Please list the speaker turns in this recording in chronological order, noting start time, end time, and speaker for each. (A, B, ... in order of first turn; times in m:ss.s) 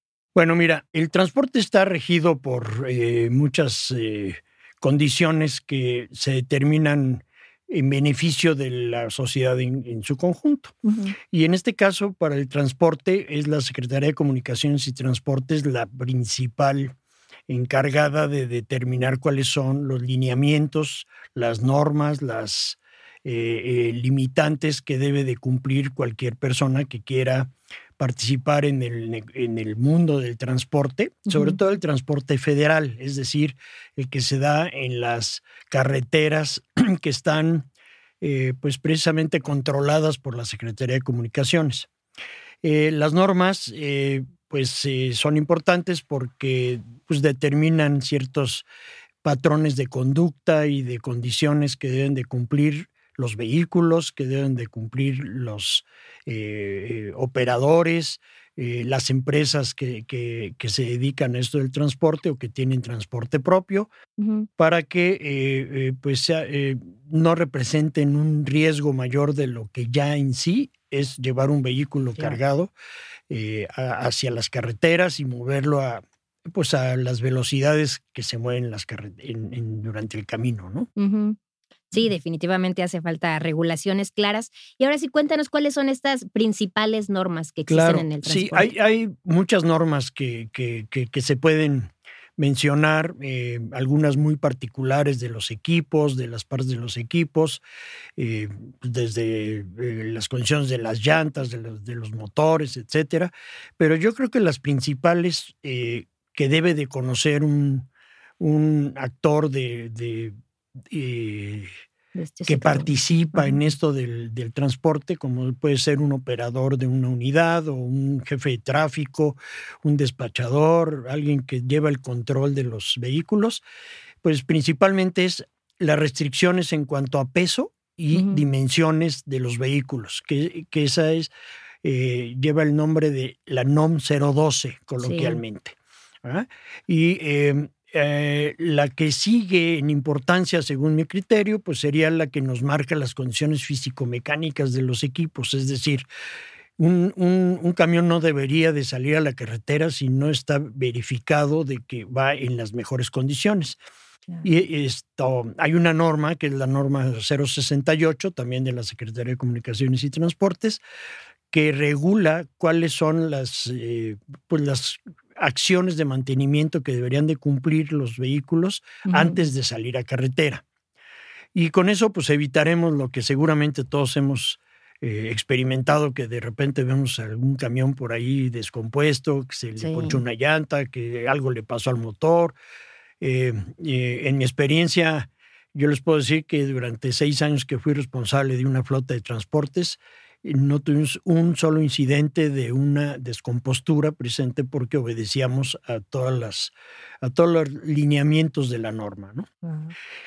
0:00.3-0:10.8 A
0:10.8-0:11.2 B
0:11.3-0:16.9 A
0:17.5-0:37.7 A
0:31.3-0:31.6 B
0:38.2-0:41.9 A
0:42.6-0:48.6 A
0:49.2-1:03.9 A
1:04.2-1:04.5 B
1:04.6-1:12.7 A
1:13.3-1:20.9 A
1:21.0-1:21.4 B
1:21.9-1:28.7 B
1:27.7-1:37.6 A
1:38.2-1:47.9 A
1:48.4-1:50.3 A
1:50.9-1:51.7 A
1:52.1-1:53.6 B
1:52.5-2:03.6 A
2:04.2-2:11.3 A
2:08.1-2:08.4 B
2:11.8-2:26.0 A
2:15.0-2:15.4 B
2:26.8-2:33.8 A
2:34.4-2:40.8 A
2:41.5-2:50.6 A
2:49.1-2:49.4 B
2:51.5-3:02.6 A
2:59.8-3:00.2 B
3:03.2-3:19.5 A
3:19.6-3:19.9 B